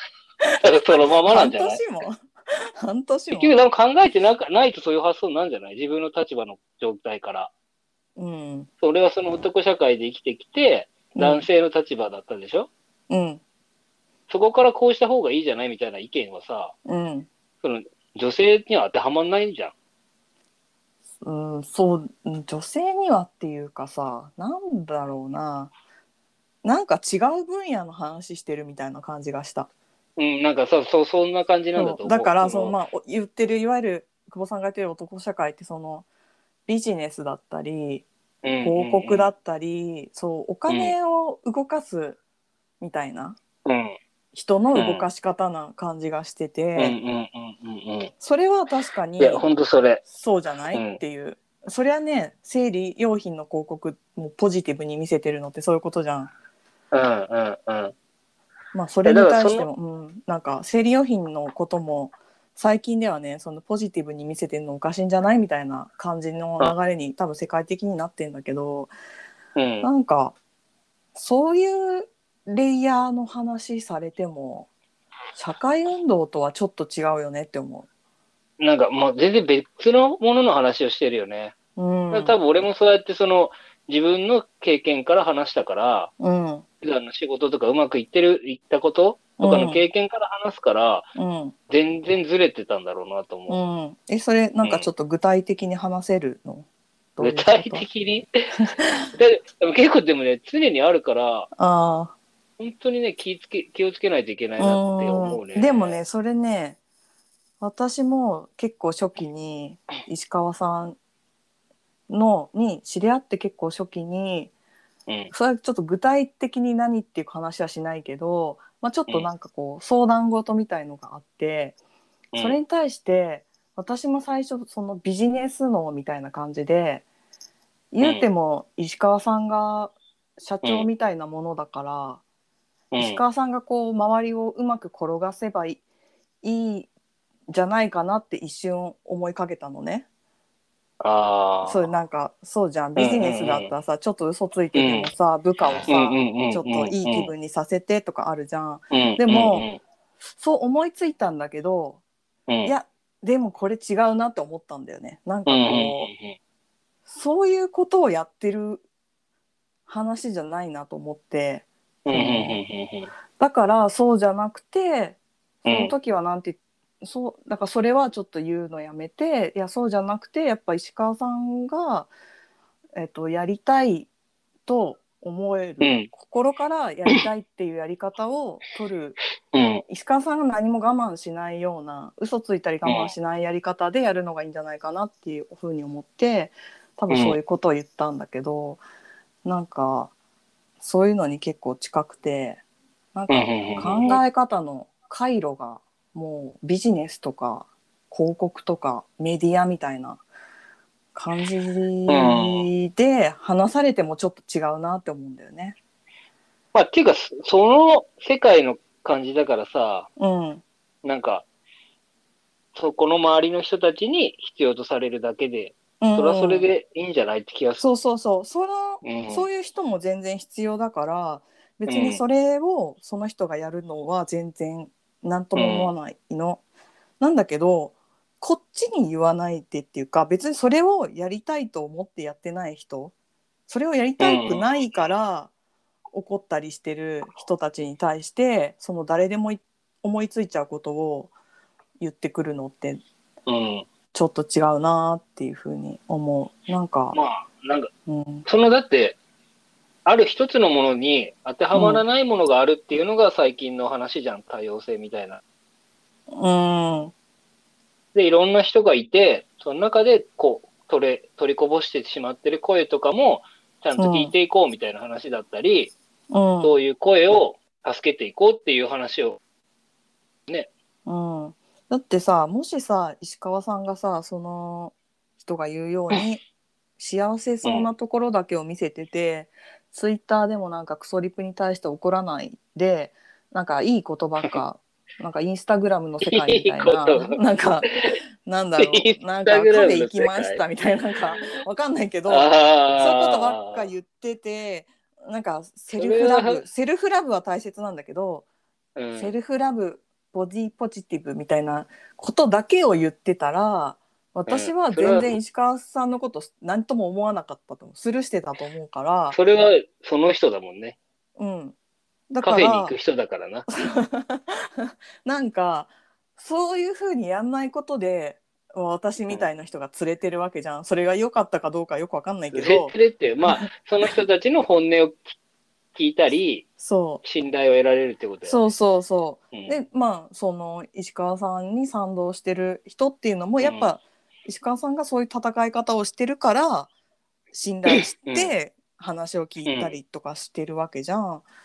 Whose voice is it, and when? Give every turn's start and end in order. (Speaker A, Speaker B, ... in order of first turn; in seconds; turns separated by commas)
Speaker A: 0.6-1.8, Speaker B: 1.2-2.2, Speaker B: 2.8-3.6, Speaker A: 3.3-7.5, Speaker B: 8.2-8.7, Speaker A: 8.8-12.7, Speaker B: 11.2-11.5, Speaker B: 13.1-13.4, Speaker A: 14.3-16.7, Speaker B: 16.9-17.3, Speaker A: 17.6-19.7, Speaker B: 21.2-25.7, Speaker B: 26.6-29.7, Speaker A: 30.2-32.7, Speaker B: 31.7-36.1, Speaker B: 36.7-38.0, Speaker A: 38.4-39.3, Speaker B: 38.6-42.2, Speaker A: 40.7-41.0, Speaker B: 42.8-43.4, Speaker A: 43.6-44.0, Speaker B: 44.3-47.0, Speaker A: 44.7-45.0, Speaker A: 46.8-48.1, Speaker B: 48.2-49.5, Speaker A: 49.2-50.0, Speaker B: 50.0-56.3, Speaker A: 50.7-51.0, Speaker A: 56.9-57.9, Speaker B: 58.7-68.9, Speaker A: 59.0-59.7, Speaker A: 69.5-69.9, Speaker B: 69.8-70.3, Speaker B: 71.1-74.7, Speaker B: 75.3-77.9, Speaker A: 78.6-81.5, Speaker B: 81.8-82.4, Speaker A: 82.1-86.1, Speaker B: 86.2-86.6, Speaker A: 86.8-91.1, Speaker B: 89.4-89.8, Speaker B: 91.2-91.5, Speaker A: 91.7-93.6, Speaker B: 93.5-97.8, Speaker A: 94.6-94.9, Speaker A: 97.2-98.3, Speaker B: 98.6-99.1, Speaker A: 99.1-101.5, Speaker B: 101.5-102.1, Speaker A: 102.6-106.0, Speaker B: 104.6-106.8, Speaker B: 107.6-111.0, Speaker B: 112.1-114.5, Speaker B: 115.3-121.8, Speaker B: 122.4-127.0, Speaker B: 127.9-132.2, Speaker A: 128.0-128.2, Speaker A: 130.6-130.9, Speaker A: 132.9-133.2, Speaker B: 133.0-135.8, Speaker B: 136.4-136.9, Speaker B: 137.5-140.1, Speaker A: 141.0-141.9, Speaker B: 141.6-149.7, Speaker A: 142.9-143.7, Speaker A: 144.7-145.1, Speaker A: 145.9-147.3, Speaker A: 148.9-149.8, Speaker B: 150.4-152.0, Speaker B: 152.6-156.1, Speaker A: 155.5-156.3, Speaker B: 157.1-158.8, Speaker B: 159.9-162.6, Speaker A: 162.1-163.1, Speaker B: 163.4-172.1, Speaker A: 165.6-165.9, Speaker B: 172.9-174.1, Speaker B: 174.7-179.2, Speaker A: 175.8-176.1, Speaker A: 179.5-179.8, Speaker B: 179.9-188.8, Speaker A: 182.8-183.1, Speaker A: 187.1-187.4, Speaker B: 189.4-190.1, Speaker B: 190.8-192.6, Speaker B: 193.1-200.2, Speaker A: 193.3-194.2, Speaker B: 201.1-205.8, Speaker A: 202.1-202.7, Speaker A: 206.7-210.1, Speaker B: 210.2-210.6, Speaker A: 211.0-211.4, Speaker A: 212.7-217.8, Speaker B: 216.0-216.7, Speaker B: 217.8-226.6, Speaker A: 219.0-219.5, Speaker A: 221.9-222.2, Speaker A: 225.6-225.9, Speaker B: 227.2-233.1, Speaker B: 233.7-235.5, Speaker A: 234.2-234.6, Speaker B: 236.1-241.3, Speaker B: 242.0-243.0, Speaker A: 243.4-243.9, Speaker B: 244.1-247.2, Speaker A: 247.1-247.9, Speaker B: 248.1-248.4, Speaker A: 248.4-249.2, Speaker A: 250.1-255.4, Speaker B: 251.7-252.0, Speaker B: 256.3-257.1, Speaker A: 258.1-265.9, Speaker B: 264.0-264.3, Speaker B: 266.3-266.8, Speaker A: 266.6-269.4, Speaker B: 271.1-276.4, Speaker B: 277.0-287.9, Speaker A: 277.6-277.9, Speaker A: 286.2-287.4, Speaker B: 288.4-298.4, Speaker A: 288.8-290.6, Speaker A: 292.3-293.9, Speaker A: 295.9-296.6, Speaker A: 298.9-299.3, Speaker B: 299.1-309.4, Speaker A: 304.5-305.4, Speaker A: 309.3-311.0, Speaker B: 311.4-311.7, Speaker B: 312.3-312.9, Speaker A: 312.4-313.6, Speaker B: 313.7-322.9, Speaker A: 322.5-325.3, Speaker A: 325.9-326.7, Speaker B: 326.8-327.2, Speaker A: 327.2-328.6, Speaker B: 328.4-336.9, Speaker A: 333.6-333.9, Speaker B: 337.5-341.5, Speaker A: 338.2-338.5, Speaker A: 339.6-339.9